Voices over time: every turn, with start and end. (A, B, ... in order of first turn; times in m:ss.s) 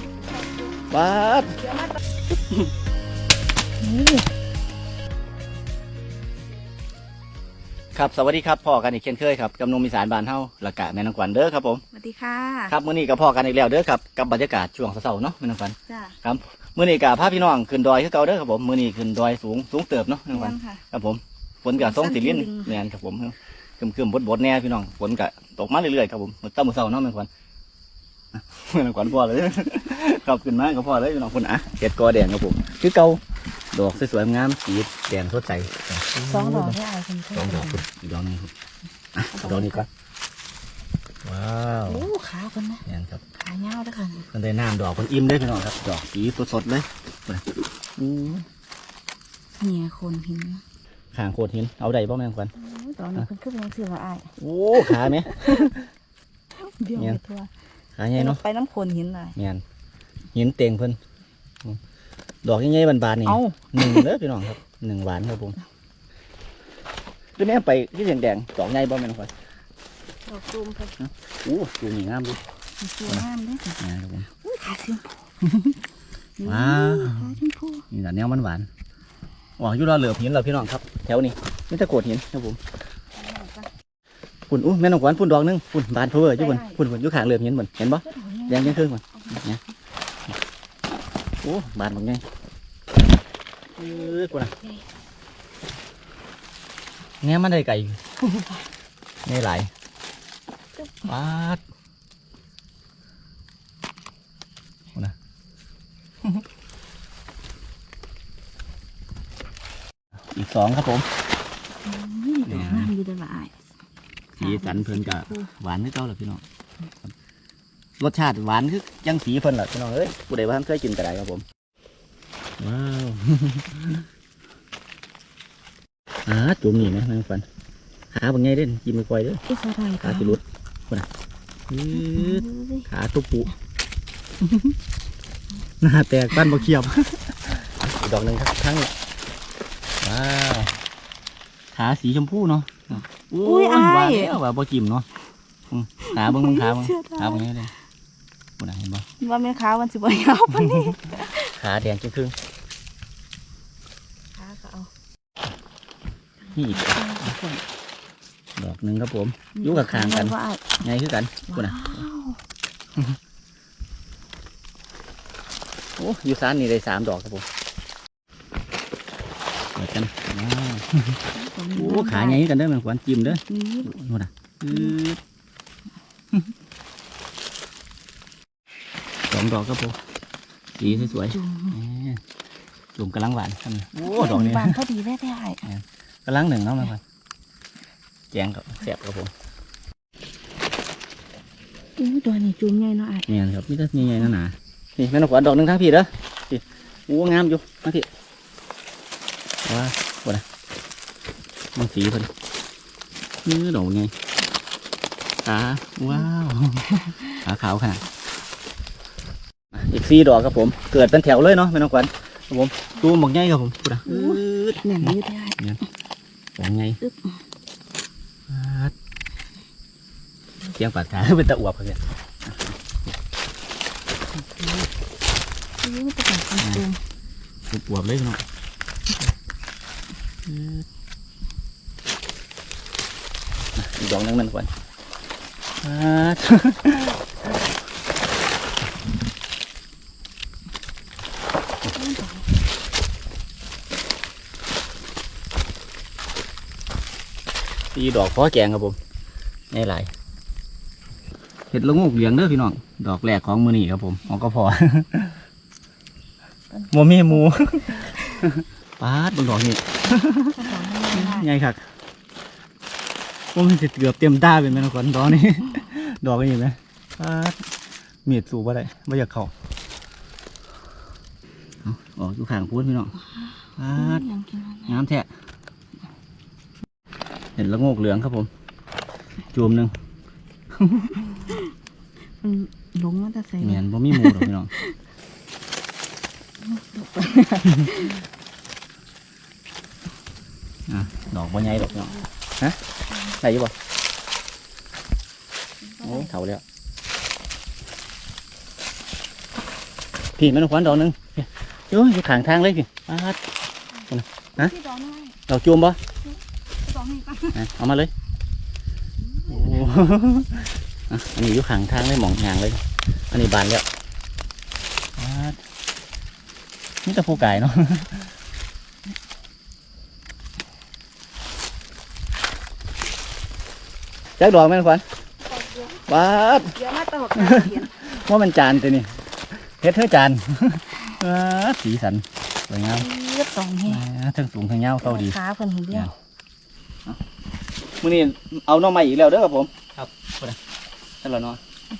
0:00.3-0:00.6 A
0:00.9-0:01.6 B
0:03.8-0:04.3 A
0:07.9-0:11.8 B
0:11.9-0:12.7 A
0:12.7-0:27.3 B
0:15.9-0:16.2 A
0:20.3-0:20.8 A
0:21.8-0:22.8 A
0:28.3-0:33.2 B
0:33.7-0:36.8 B
0:36.2-0:37.8 A
0:37.4-0:38.5 B
0:39.2-0:39.9 B
0:39.3-0:39.8 A
0:41.2-0:42.1 B
0:41.9-0:42.8 A
0:42.9-0:43.2 B
0:43.4-0:44.3 A
0:44.3-0:47.4 B
0:48.0-0:48.5 B
0:49.6-0:50.6 A
0:51.1-0:52.5 B
0:52.6-0:55.7 A
0:54.4-0:55.9 B
0:56.6-0:57.5 A
0:58.0-0:58.4 B
0:58.2-0:59.4 A
0:59.4-0:59.6 B
1:00.4-1:01.0 B
1:02.4-1:05.6 B
1:03.3-1:04.1 A
1:07.4-1:09.3 B
1:10.3-1:11.0 A
1:11.0-1:12.4 B
1:12.8-1:13.8 A
1:13.8-1:14.3 B
1:14.4-1:15.2 A
1:15.4-1:15.8 B
1:16.4-1:17.9 A
1:16.5-1:17.4 B
1:17.9-1:18.7 B
1:19.6-1:22.6 B
1:23.2-1:23.7 A
1:24.5-1:29.6 B
1:26.4-1:26.8 A
1:28.0-1:29.4 A
1:31.4-1:32.2 B
1:33.8-1:34.5 B
1:37.2-1:38.4 B
1:39.3-1:39.7 B
1:40.8-1:41.1 A
1:41.1-1:41.6 B
1:50.3-1:51.1 B
1:51.8-1:53.5 A
1:52.5-1:52.9 B
1:54.4-1:55.5 A
1:54.4-1:56.4 B
1:58.0-2:01.4 B
2:02.6-2:04.0 B
2:06.3-2:07.4 B
2:08.1-2:09.4 B
2:09.5-2:10.4 A
2:10.0-2:11.1 B
2:11.7-2:13.5 B
2:11.9-2:12.9 A
2:14.4-2:14.7 B
2:15.8-2:18.9 B
2:20.0-2:20.8 B
2:21.7-2:25.1 B
2:23.4-2:24.4 A
2:25.7-2:27.7 B
2:26.1-2:27.5 A
2:28.6-2:29.0 B
2:29.2-2:31.6 A
2:31.5-2:32.4 B
2:34.4-2:34.9 A
2:36.5-2:37.6 A
2:36.6-2:37.3 B
2:38.6-2:42.0 B
2:39.6-2:40.8 A
2:41.5-2:42.4 A
2:46.0-2:47.4 B
2:49.8-2:51.2 B
2:51.3-2:52.4 A
2:51.8-2:55.2 B
2:53.3-2:54.0 A
2:59.3-3:00.0 B
3:00.8-3:02.2 B
3:00.8-3:01.8 A
3:03.0-3:04.8 B
3:04.0-3:05.7 A
3:05.7-3:07.0 B
3:08.3-3:09.3 B
3:12.0-3:13.3 A
3:13.3-3:18.1 B
3:19.6-3:20.4 B
3:21.8-3:22.3 B
3:23.4-3:24.1 B
3:25.4-3:28.0 B
3:29.7-3:35.8 B
3:34.1-3:35.6 A
3:36.6-3:37.0 B
3:37.0-3:37.4 A
3:38.5-3:38.9 B
3:40.7-3:43.1 B
3:44.5-3:44.9 B
3:45.8-3:47.0 A
3:46.6-3:46.8 B
3:47.7-3:48.4 B
3:50.5-3:50.8 B
3:53.8-3:54.7 B
3:55.8-3:57.2 B
4:01.9-4:02.5 A
4:07.9-4:09.0 B
4:09.7-4:10.1 B
4:11.7-4:15.4 B
4:16.8-4:17.4 A
4:16.9-4:21.8 B
4:20.6-4:21.5 A
4:23.5-4:27.6 B
4:28.3-4:29.5 B
4:31.8-4:33.1 B
4:33.8-4:34.2 B
4:33.9-4:35.0 A
4:34.9-4:35.3 B
4:37.6-4:38.5 B
4:39.5-4:39.9 B
4:40.8-4:41.2 B
4:41.2-4:41.7 A
4:42.4-4:45.0 A
4:43.6-4:44.7 B
4:46.6-4:48.2 A
4:50.9-4:52.8 B
4:53.3-4:53.7 B
4:56.0-4:56.3 A
4:56.0-4:56.6 B
5:00.4-5:03.4 B
5:04.1-5:04.7 B
5:04.6-5:05.4 A
5:05.5-5:06.0 B
5:06.8-5:07.6 A
5:07.5-5:08.1 B
5:09.4-5:09.9 A
5:09.5-5:13.8 B
5:15.2-5:15.6 B
5:17.0-5:18.3 B
5:24.4-5:25.0 B
5:26.1-5:26.8 B
5:26.8-5:27.9 A
5:27.4-5:29.1 B
5:29.8-5:33.1 B
5:33.0-5:34.0 A
5:33.9-5:35.4 B
5:35.0-5:36.1 A
5:38.0-5:40.6 B
5:41.2-5:41.6 B